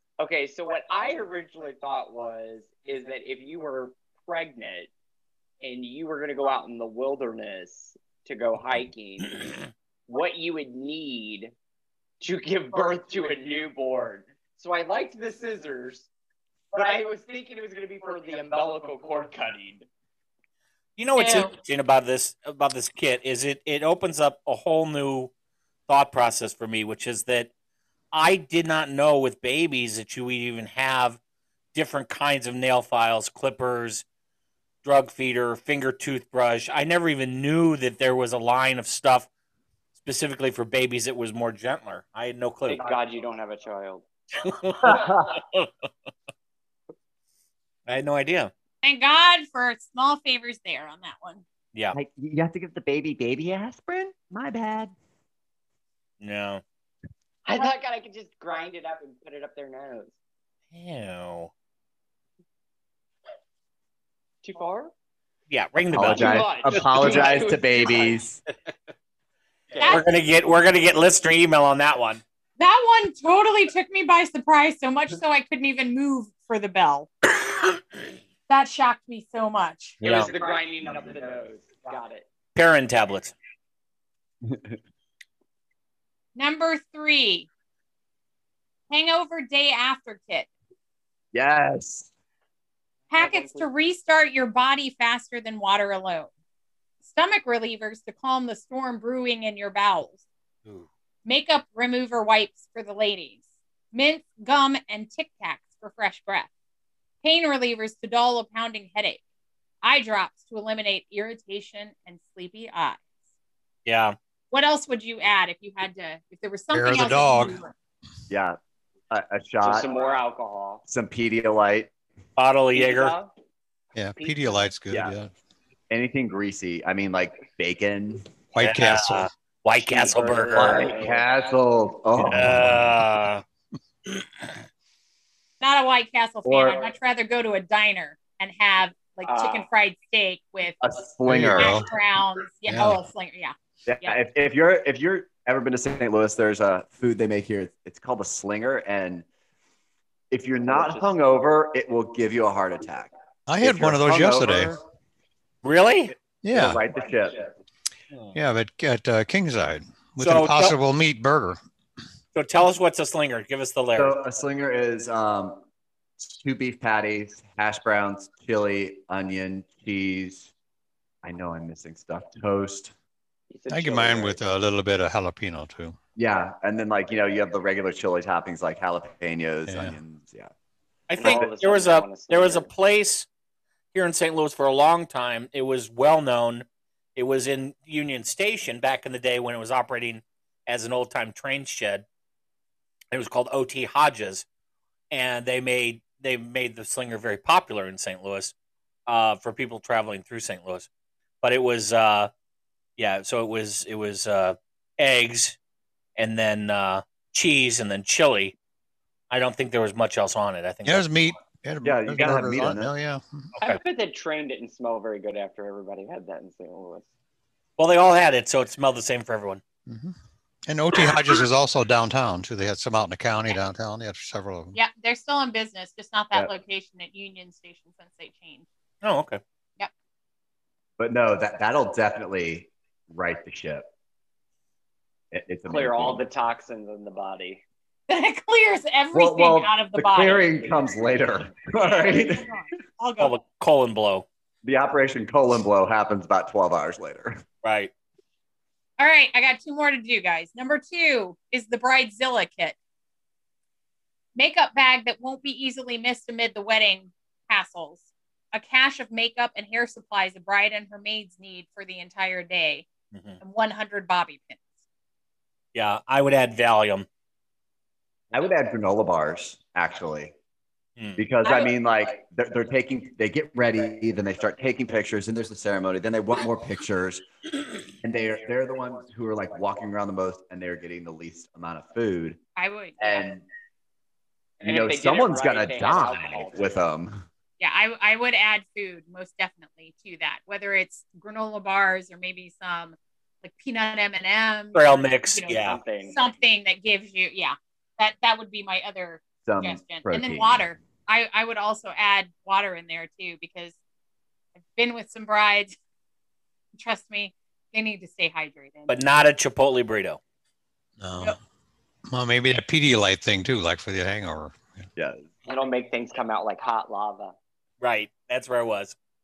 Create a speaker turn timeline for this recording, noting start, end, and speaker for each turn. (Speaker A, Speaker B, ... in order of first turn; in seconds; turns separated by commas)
Speaker A: 0.2-4.9, Speaker A: 5.6-9.5, Speaker A: 10.1-11.5, Speaker A: 12.2-16.1, Speaker A: 16.7-19.9, Speaker B: 21.0-25.3, Speaker C: 21.2-21.5, Speaker B: 25.9-27.5, Speaker B: 28.1-31.2, Speaker B: 31.7-34.0, Speaker B: 34.8-39.3, Speaker B: 40.0-42.8, Speaker A: 42.7-44.0, Speaker B: 44.4-45.7, Speaker D: 44.8-45.2, Speaker B: 47.9-48.5, Speaker C: 48.8-51.4, Speaker D: 51.9-54.9, Speaker B: 56.2-56.6, Speaker A: 57.5-60.1, Speaker B: 60.7-61.5, Speaker A: 64.4-64.9, Speaker B: 65.5-66.8, Speaker D: 65.9-68.4, Speaker A: 66.0-68.2, Speaker A: 69.7-70.0, Speaker C: 69.8-70.1, Speaker B: 69.8-72.2, Speaker C: 72.6-77.1, Speaker C: 78.5-80.0, Speaker B: 80.0-80.3, Speaker A: 80.0-82.2, Speaker B: 82.5-83.3, Speaker D: 84.4-84.8, Speaker C: 86.3-87.5, Speaker C: 88.9-90.5, Speaker D: 91.3-92.1, Speaker C: 93.1-96.3, Speaker A: 93.1-93.7, Speaker C: 97.0-100.2, Speaker C: 101.2-106.5, Speaker C: 107.2-109.2, Speaker C: 109.8-113.0, Speaker B: 113.8-114.2, Speaker C: 114.5-117.7, Speaker E: 116.7-117.6, Speaker D: 118.3-118.6, Speaker D: 119.1-119.9, Speaker A: 119.6-120.8, Speaker D: 120.9-121.9, Speaker B: 122.4-123.1, Speaker A: 122.7-123.3, Speaker E: 123.9-125.3, Speaker D: 125.9-128.2, Speaker E: 128.5-129.3, Speaker B: 128.6-130.9, Speaker A: 129.8-131.3, Speaker D: 130.5-132.7, Speaker B: 132.3-133.4, Speaker C: 135.6-140.9, Speaker D: 136.4-136.8, Speaker A: 139.2-139.7, Speaker D: 140.8-141.8, Speaker E: 141.2-141.9, Speaker C: 141.5-144.2, Speaker E: 142.7-143.0, Speaker D: 143.8-149.2, Speaker D: 150.3-154.8, Speaker A: 150.6-151.1, Speaker E: 153.5-154.8, Speaker B: 155.6-156.1, Speaker E: 156.4-156.8, Speaker D: 156.5-157.5, Speaker E: 158.3-161.6, Speaker B: 160.2-160.8, Speaker B: 162.3-164.2, Speaker D: 163.9-165.6, Speaker D: 166.2-170.5, Speaker D: 171.2-172.9, Speaker A: 173.5-174.4, Speaker E: 173.7-176.0, Speaker D: 176.2-180.5, Speaker E: 179.7-179.9, Speaker B: 181.1-183.3, Speaker A: 181.2-182.7, Speaker D: 181.2-181.5, Speaker B: 183.9-192.0, Speaker B: 193.1-194.4, Speaker B: 195.1-198.5, Speaker B: 199.1-200.9, Speaker B: 201.4-202.3, Speaker B: 203.0-205.6, Speaker B: 206.2-208.6, Speaker B: 209.3-211.1, Speaker E: 210.8-213.5, Speaker D: 211.8-212.9, Speaker A: 213.6-217.1, Speaker B: 217.8-219.6, Speaker E: 219.9-220.1, Speaker E: 220.7-224.8, Speaker C: 224.7-228.7, Speaker B: 229.0-229.4, Speaker D: 231.0-233.9, Speaker D: 235.3-236.2, Speaker A: 235.7-237.6, Speaker C: 238.1-240.5, Speaker D: 239.1-242.5, Speaker C: 241.8-243.3, Speaker B: 243.2-244.2, Speaker D: 244.6-247.4, Speaker B: 247.6-247.9, Speaker C: 249.0-252.8, Speaker C: 254.3-262.9, Speaker B: 263.1-263.4, Speaker C: 263.4-264.6, Speaker B: 265.7-267.1, Speaker D: 268.3-270.3, Speaker D: 271.2-277.2, Speaker C: 271.4-271.7, Speaker D: 277.9-282.4, Speaker C: 282.6-283.3, Speaker D: 283.0-283.4, Speaker A: 284.6-286.8, Speaker D: 284.6-287.2, Speaker C: 287.6-303.8, Speaker B: 294.7-295.8, Speaker A: 295.6-296.2, Speaker D: 299.4-300.6, Speaker C: 304.7-305.7, Speaker C: 306.8-308.9, Speaker B: 308.9-310.2, Speaker E: 311.0-311.4, Speaker E: 312.1-314.8, Speaker D: 315.0-315.3, Speaker A: 315.4-317.3, Speaker B: 317.8-318.9